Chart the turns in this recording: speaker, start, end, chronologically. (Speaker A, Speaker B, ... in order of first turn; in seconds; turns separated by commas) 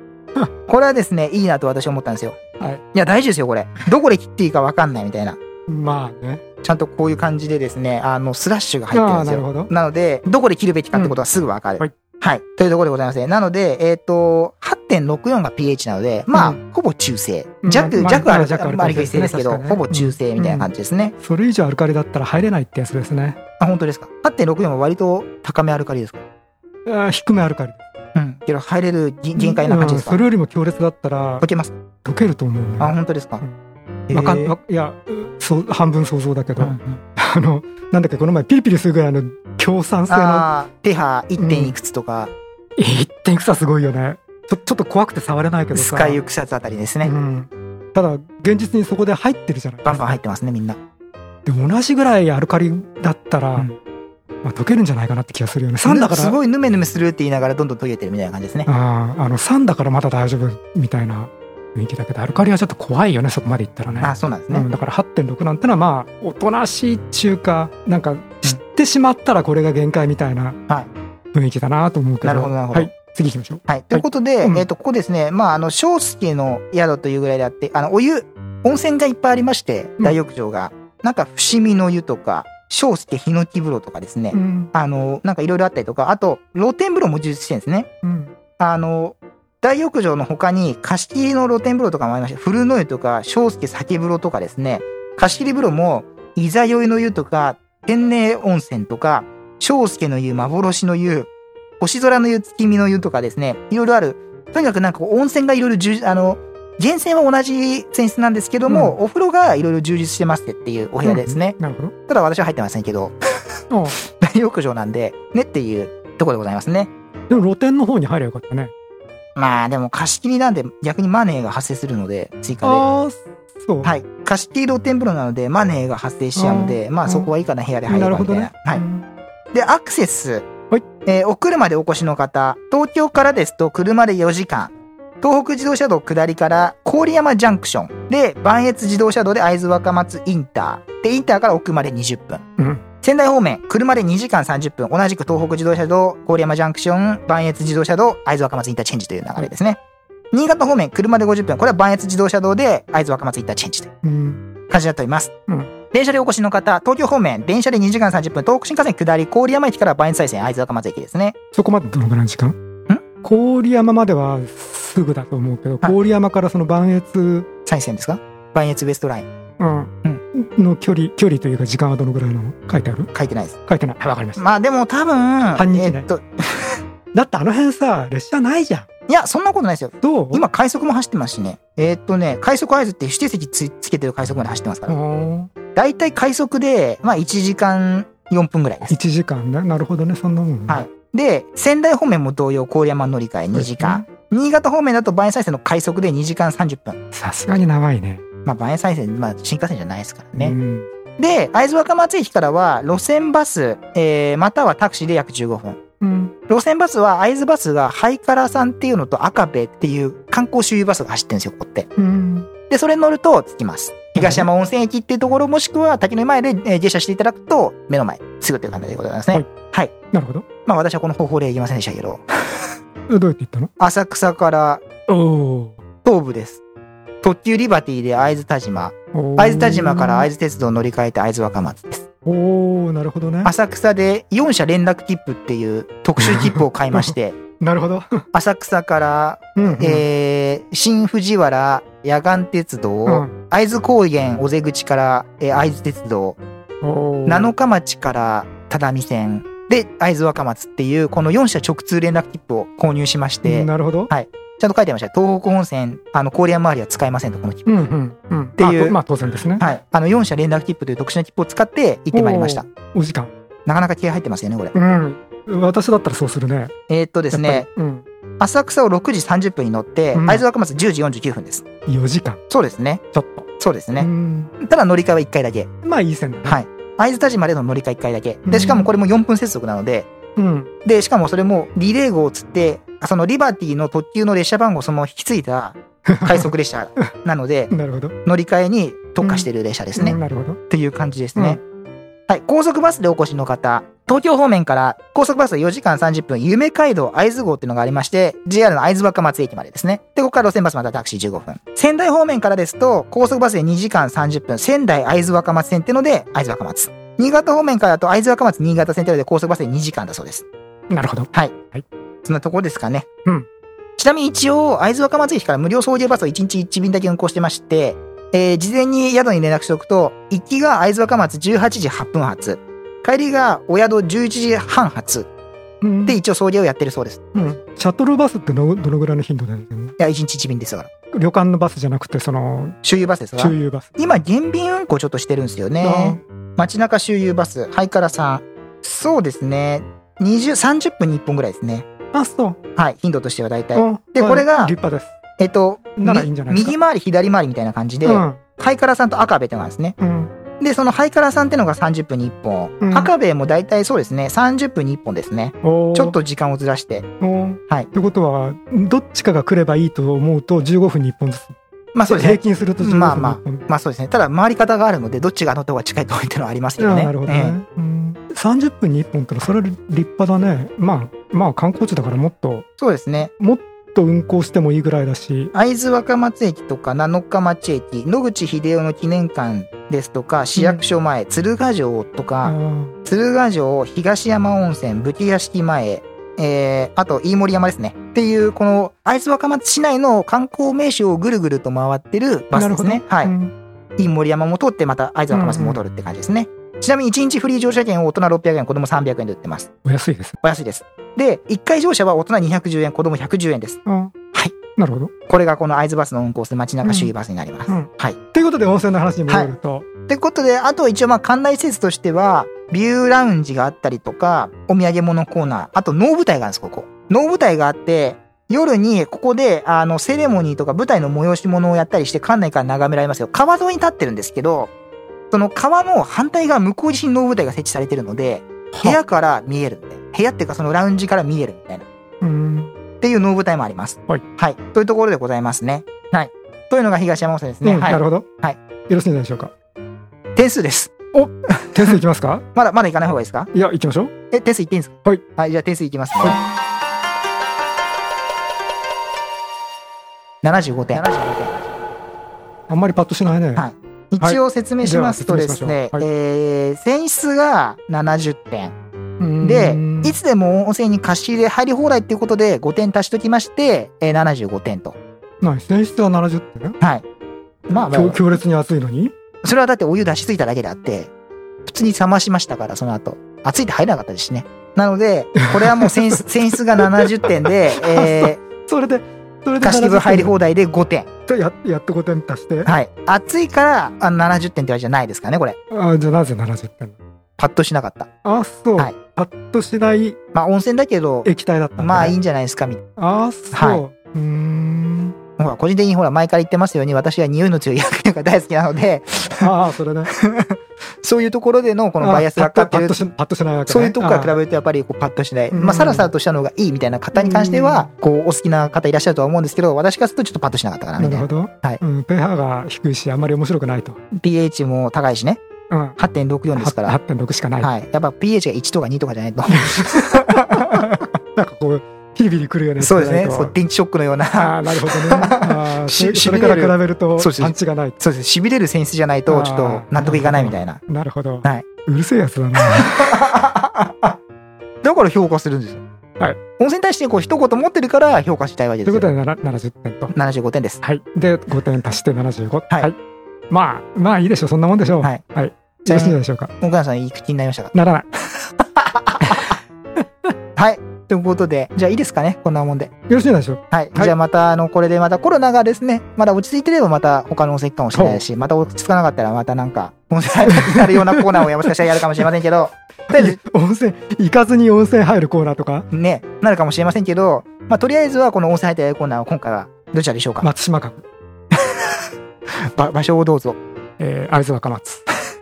Speaker A: 0.7-2.4, Speaker A: 2.9-5.4, Speaker B: 5.7-6.4, Speaker A: 6.6-21.1, Speaker B: 8.9-9.7, Speaker B: 16.3-16.6, Speaker B: 17.6-23.4, Speaker A: 23.6-26.2, Speaker B: 26.9-27.8, Speaker A: 28.1-30.2, Speaker B: 29.4-31.4, Speaker A: 31.4-31.8, Speaker B: 32.0-33.5, Speaker A: 32.8-33.4, Speaker A: 34.1-34.5, Speaker B: 34.1-40.5, Speaker A: 36.6-37.0, Speaker A: 40.1-42.3, Speaker B: 41.4-41.7, Speaker B: 42.8-46.2, Speaker A: 45.7-47.1, Speaker B: 47.0-50.2, Speaker A: 49.8-50.8, Speaker B: 51.4-53.7, Speaker B: 54.4-56.4, Speaker A: 55.8-58.7, Speaker B: 58.6-70.6, Speaker A: 64.0-64.7, Speaker B: 71.3-74.7, Speaker A: 72.2-72.9, Speaker A: 73.7-87.9, Speaker B: 84.3-84.7, Speaker B: 88.0-88.3, Speaker A: 88.6-101.3, Speaker A: 101.8-111.6, Speaker B: 108.7-109.0, Speaker B: 111.0-111.9, Speaker A: 112.1-113.1, Speaker B: 113.7-114.0, Speaker A: 114.0-116.9, Speaker B: 117.3-118.7, Speaker A: 119.3-122.8, Speaker B: 122.6-123.9, Speaker A: 123.8-128.8, Speaker B: 126.3-127.3, Speaker B: 127.9-129.1, Speaker A: 129.5-130.5, Speaker A: 131.0-142.4, Speaker B: 142.6-142.8, Speaker A: 143.0-149.8, Speaker A: 150.3-153.9, Speaker B: 154.0-154.4, Speaker A: 154.7-155.3, Speaker A: 155.9-161.3, Speaker B: 161.5-162.5, Speaker B: 163.2-167.5, Speaker A: 167.7-169.3, Speaker B: 169.6-173.1, Speaker A: 173.1-173.6, Speaker B: 173.7-174.4, Speaker A: 174.4-176.8, Speaker B: 175.5-176.0, Speaker B: 177.1-178.8, Speaker A: 179.1-185.0, Speaker B: 180.0-180.4, Speaker B: 184.9-185.5, Speaker A: 185.7-188.9, Speaker B: 188.9-190.8, Speaker A: 190.7-197.0, Speaker B: 193.5-194.0, Speaker B: 197.1-198.2, Speaker A: 198.4-200.5, Speaker B: 200.4-200.9, Speaker A: 201.2-205.8, Speaker B: 206.0-206.3, Speaker A: 206.5-211.9, Speaker B: 212.0-212.5, Speaker A: 212.7-219.9, Speaker B: 214.2-214.4, Speaker B: 220.1-220.4, Speaker A: 220.6-222.6, Speaker B: 223.1-223.7, Speaker A: 223.8-224.8, Speaker B: 225.1-225.8, Speaker A: 226.0-226.6, Speaker A: 227.2-232.0, Speaker B: 229.1-230.3, Speaker B: 232.2-233.5, Speaker A: 233.4-237.4, Speaker B: 236.2-238.2, Speaker A: 238.3-246.4, Speaker B: 239.6-240.0, Speaker B: 243.1-243.3, Speaker B: 246.8-247.5, Speaker A: 247.3-257.7, Speaker B: 253.4-254.1, Speaker B: 257.6-259.6, Speaker A: 258.6-259.0, Speaker A: 259.6-262.6, Speaker B: 262.1-263.3, Speaker A: 263.6-264.7, Speaker B: 264.7-266.7, Speaker A: 266.9-267.7, Speaker B: 267.3-268.0, Speaker A: 268.4-271.6, Speaker B: 270.1-270.4, Speaker B: 271.9-272.4, Speaker A: 272.5-273.0, Speaker B: 273.1-273.5, Speaker A: 273.6-274.1, Speaker B: 274.0-274.5, Speaker A: 274.6-275.7, Speaker B: 275.8-276.6, Speaker A: 276.4-280.1, Speaker B: 278.4-278.9, Speaker B: 280.4-280.7, Speaker A: 280.8-287.7, Speaker B: 286.1-286.5, Speaker B: 287.7-288.1, Speaker A: 288.2-290.2, Speaker B: 289.2-290.6, Speaker A: 290.7-291.6, Speaker A: 292.3-310.4, Speaker B: 310.9-311.8, Speaker A: 312.2-313.1, Speaker A: 314.0-325.3, Speaker B: 325.8-326.2, Speaker A: 326.1-327.2, Speaker B: 327.3-329.9, Speaker A: 330.0-330.9, Speaker B: 331.1-332.8, Speaker A: 332.8-341.9, Speaker B: 333.4-333.9, Speaker B: 335.8-336.2, Speaker B: 342.1-342.6, Speaker A: 342.8-344.7, Speaker B: 343.7-345.1, Speaker A: 345.4-349.9, Speaker B: 346.0-346.7, Speaker B: 348.0-348.4, Speaker B: 350.0-350.3, Speaker A: 350.6-357.1, Speaker B: 352.8-353.1, Speaker B: 355.6-356.1, Speaker B: 357.2-361.5, Speaker A: 361.9-367.6, Speaker B: 362.1-363.6, Speaker B: 366.8-372.6, Speaker A: 372.8-373.3, Speaker B: 373.4-375.5, Speaker A: 375.5-393.3, Speaker B: 380.6-380.8, Speaker B: 382.4-382.9, Speaker B: 392.5-393.5, Speaker A: 394.0-399.7, Speaker B: 395.3-395.8, Speaker B: 399.8-400.4, Speaker A: 400.4-403.8, Speaker B: 403.9-404.1, Speaker B: 404.8-405.1, Speaker A: 405.3-408.2, Speaker B: 406.8-407.1, Speaker B: 407.7-409.9, Speaker A: 410.1-424.7, Speaker A: 425.3-431.9, Speaker B: 432.2-432.7, Speaker A: 433.0-438.6, Speaker B: 437.6-438.2, Speaker B: 438.9-439.5, Speaker A: 440.4-440.9, Speaker B: 441.1-442.4, Speaker A: 441.6-441.9, Speaker A: 442.5-443.5, Speaker B: 443.5-444.1, Speaker A: 444.3-446.4, Speaker A: 450.4-451.7, Speaker B: 452.7-453.6, Speaker A: 453.6-458.7, Speaker B: 454.2-456.0, Speaker B: 459.2-460.1, Speaker A: 459.4-464.9, Speaker B: 465.4-466.8, Speaker A: 466.8-467.0, Speaker A: 467.7-468.2, Speaker B: 467.9-469.1, Speaker A: 469.4-471.1, Speaker A: 471.6-478.4, Speaker B: 475.4-480.3, Speaker A: 479.6-481.1, Speaker B: 481.3-482.7, Speaker A: 482.6-485.6, Speaker B: 485.7-486.9, Speaker A: 487.4-488.1, Speaker B: 488.2-490.2, Speaker A: 490.3-492.8, Speaker B: 491.2-492.1, Speaker B: 493.0-495.1, Speaker A: 493.5-493.8, Speaker A: 495.4-499.5, Speaker B: 499.4-500.1, Speaker A: 500.1-503.0, Speaker B: 502.0-504.4, Speaker A: 503.7-511.8, Speaker B: 505.5-506.1, Speaker B: 507.1-507.9, Speaker B: 511.0-514.0, Speaker A: 514.1-515.4, Speaker B: 515.7-516.0, Speaker A: 516.0-517.0, Speaker B: 516.5-517.7, Speaker A: 517.6-521.1, Speaker B: 519.5-523.5, Speaker A: 522.8-530.8, Speaker B: 524.3-528.0, Speaker B: 529.3-533.2, Speaker A: 532.8-534.2, Speaker A: 534.8-535.8, Speaker A: 536.6-539.1, Speaker B: 538.9-540.1, Speaker A: 540.1-540.8, Speaker B: 540.8-543.0, Speaker B: 543.5-546.5, Speaker A: 545.9-547.7, Speaker B: 547.7-548.0, Speaker A: 548.6-549.5, Speaker B: 549.2-549.5, Speaker A: 550.5-552.9, Speaker B: 553.1-554.1, Speaker A: 553.7-563.4, Speaker B: 557.9-558.2, Speaker B: 560.5-561.4, Speaker B: 563.1-565.9, Speaker A: 565.9-570.5, Speaker B: 570.4-571.0, Speaker A: 571.5-571.9, Speaker A: 572.7-573.6, Speaker B: 574.0-575.0